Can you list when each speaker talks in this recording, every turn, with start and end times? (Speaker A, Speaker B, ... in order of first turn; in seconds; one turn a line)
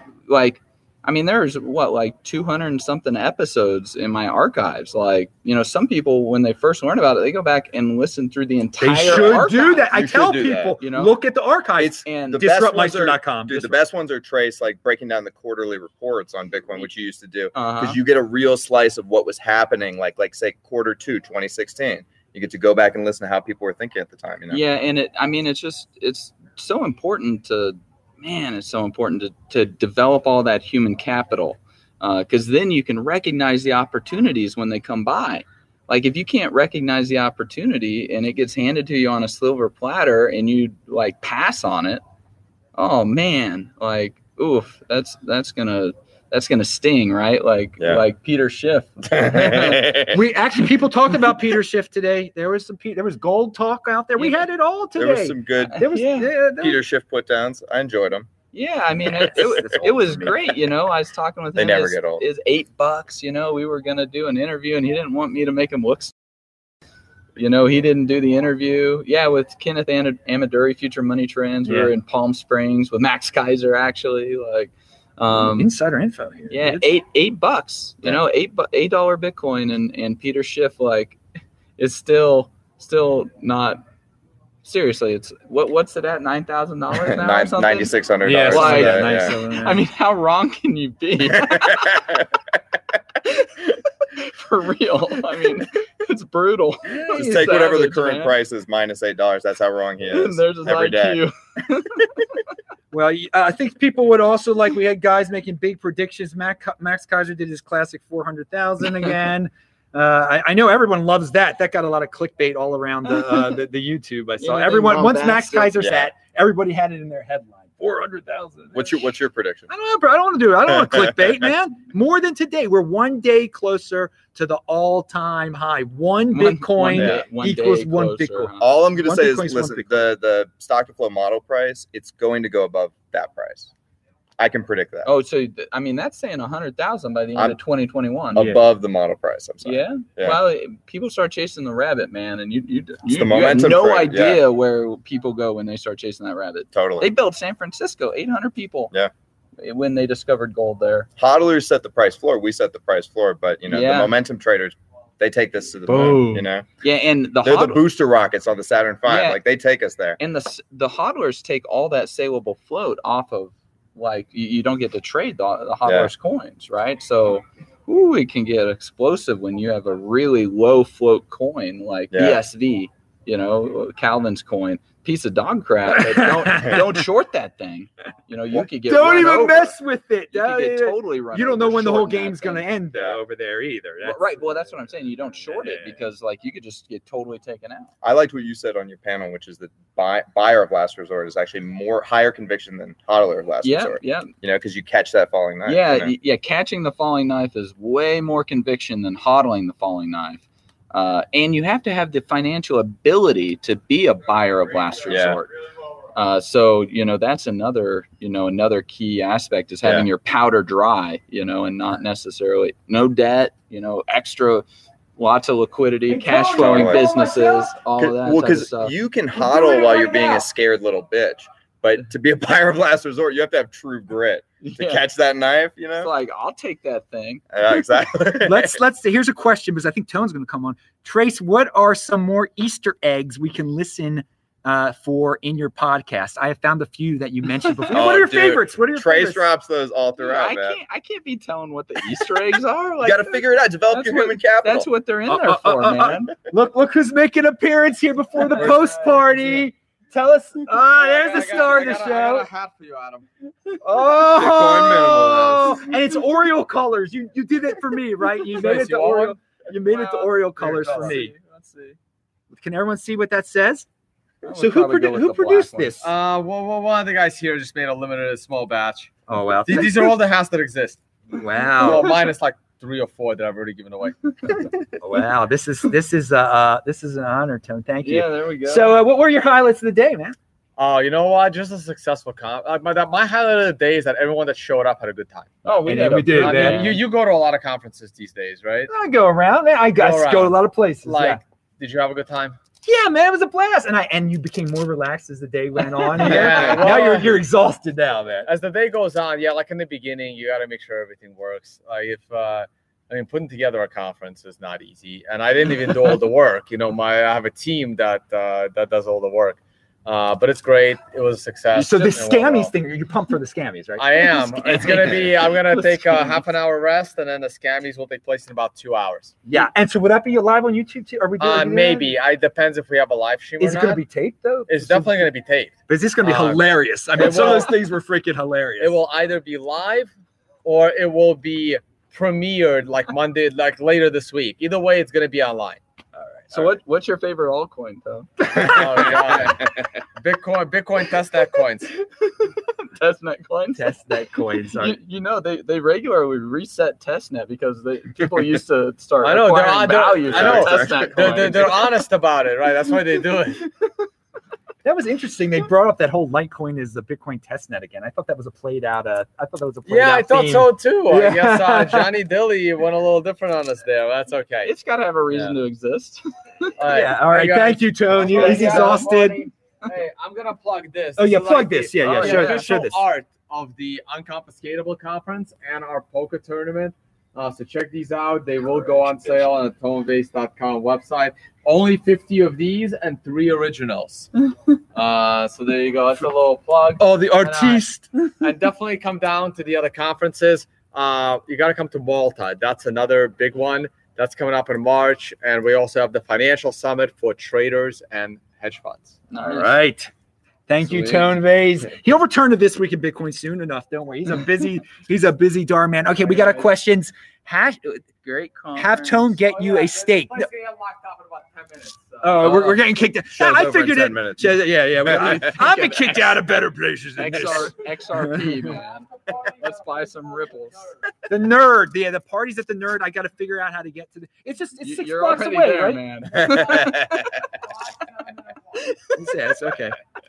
Speaker A: 0.3-9.9
Speaker B: 8.8-13.8
Speaker C: 9.1-10.8
Speaker A: 10.8-11.1
Speaker C: 11.8-24.6
Speaker A: 12.0-12.4
Speaker A: 17.5-18.0
Speaker A: 24.5-42.0
Speaker A: 42.8-50.0
Speaker C: 49.1-50.2
Speaker B: 50.1-56.8
Speaker C: 55.0-55.8
Speaker A: 55.7-56.3
Speaker C: 56.6-58.3
Speaker A: 58.5-66.1
Speaker B: 59.3-60.4
Speaker C: 61.5-62.2
Speaker A: 67.3-75.7
Speaker B: 71.7-71.9
Speaker B: 75.3-76.9
Speaker A: 76.5-81.2
Speaker A: 81.8-83.8
Speaker A: 84.6-92.0
Speaker C: 86.9-89.3
Speaker B: 88.2-89.8
Speaker C: 91.3-92.2
Speaker A: 93.2-98.3
Speaker B: 96.8-97.7
Speaker C: 97.1-101.2
Speaker A: 100.1-102.2
Speaker B: 102.9-119.0
Speaker A: 114.4-115.8
Speaker C: 115.8-116.1
Speaker C: 118.7-119.7
Speaker B: 119.7-130.1
Speaker A: 126.3-128.7
Speaker C: 126.9-127.2
Speaker C: 128.6-133.7
Speaker C: 134.4-135.1
Speaker A: 135.0-138.5
Speaker C: 138.3-140.4
Speaker A: 139.6-148.9
Speaker C: 143.1-144.4
Speaker C: 146.7-147.1
Speaker A: 149.6-151.1
Speaker C: 151.2-156.7
Speaker A: 153.7-154.1
Speaker A: 155.9-157.8
Speaker B: 155.9-156.2
Speaker C: 157.4-160.2
Speaker A: 159.1-159.4
Speaker A: 160.2-179.7
Speaker C: 165.8-166.1
Speaker C: 172.1-172.4
Speaker B: 175.9-176.9
Speaker B: 178.8-184.6
Speaker A: 180.3-182.7
Speaker C: 182.9-183.2
Speaker A: 184.0-187.9
Speaker B: 185.5-185.9
Speaker C: 188.0-196.1
Speaker A: 193.6-194.3
Speaker A: 195.6-205.5
Speaker C: 205.1-205.4
Speaker A: 206.1-214.7
Speaker A: 215.2-218.9
Speaker B: 216.1-217.7
Speaker C: 216.5-217.0
Speaker C: 218.0-226.1
Speaker B: 219.3-220.4
Speaker A: 224.6-225.0
Speaker A: 226.0-227.4
Speaker C: 227.5-228.8
Speaker B: 228.4-239.4
Speaker C: 237.9-240.8
Speaker A: 240.2-246.3
Speaker C: 243.0-244.9
Speaker B: 245.3-252.5
Speaker D: 248.5-249.4
Speaker D: 250.8-253.2
Speaker B: 253.8-261.3
Speaker C: 254.2-255.8
Speaker D: 258.6-259.4
Speaker D: 260.1-261.2
Speaker A: 260.6-262.0
Speaker B: 262.5-263.9
Speaker A: 264.4-265.9
Speaker B: 264.5-266.1
Speaker D: 266.0-269.1
Speaker B: 269.3-270.1
Speaker D: 269.6-271.0
Speaker B: 271.3-272.2
Speaker D: 271.8-274.7
Speaker B: 275.0-280.4
Speaker A: 278.0-279.0
Speaker D: 280.8-285.5
Speaker A: 285.6-287.0
Speaker B: 285.9-287.0
Speaker D: 286.3-288.9
Speaker B: 288.9-291.4
Speaker D: 290.0-292.6
Speaker B: 292.8-298.5
Speaker D: 296.1-297.4
Speaker D: 298.4-312.7
Speaker B: 311.7-315.3
Speaker D: 314.0-319.4
Speaker A: 314.9-316.4
Speaker B: 319.4-322.1
Speaker D: 321.4-324.0
Speaker B: 323.6-325.3
Speaker D: 324.7-327.8
Speaker B: 325.9-329.0
Speaker D: 328.8-330.1
Speaker D: 330.6-335.8
Speaker B: 336.2-336.6
Speaker A: 336.5-338.8
Speaker B: 338.5-338.8
Speaker D: 338.5-341.9
Speaker A: 342.2-343.9
Speaker B: 343.7-345.0
Speaker A: 344.8-351.9
Speaker D: 349.2-353.7
Speaker C: 350.2-351.8
Speaker B: 354.8-362.1
Speaker D: 359.9-364.7
Speaker A: 364.6-366.2
Speaker C: 365.3-365.6
Speaker D: 366.8-384.3
Speaker B: 366.9-369.4
Speaker B: 371.2-373.0
Speaker A: 372.0-372.7
Speaker D: 384.9-387.9
Speaker B: 387.0-388.1
Speaker D: 388.4-399.2
Speaker A: 399.3-399.8
Speaker B: 399.4-400.1
Speaker B: 400.7-408.1
Speaker A: 400.8-401.3
Speaker A: 406.3-406.6
Speaker A: 408.2-409.3
Speaker B: 408.7-410.5
Speaker D: 409.4-412.5
Speaker B: 412.2-418.5
Speaker C: 413.3-415.6
Speaker A: 417.2-419.1
Speaker D: 419.3-420.1
Speaker A: 419.6-420.8
Speaker B: 421.3-426.0
Speaker A: 424.8-427.4
Speaker C: 426.3-427.2
Speaker B: 429.1-429.9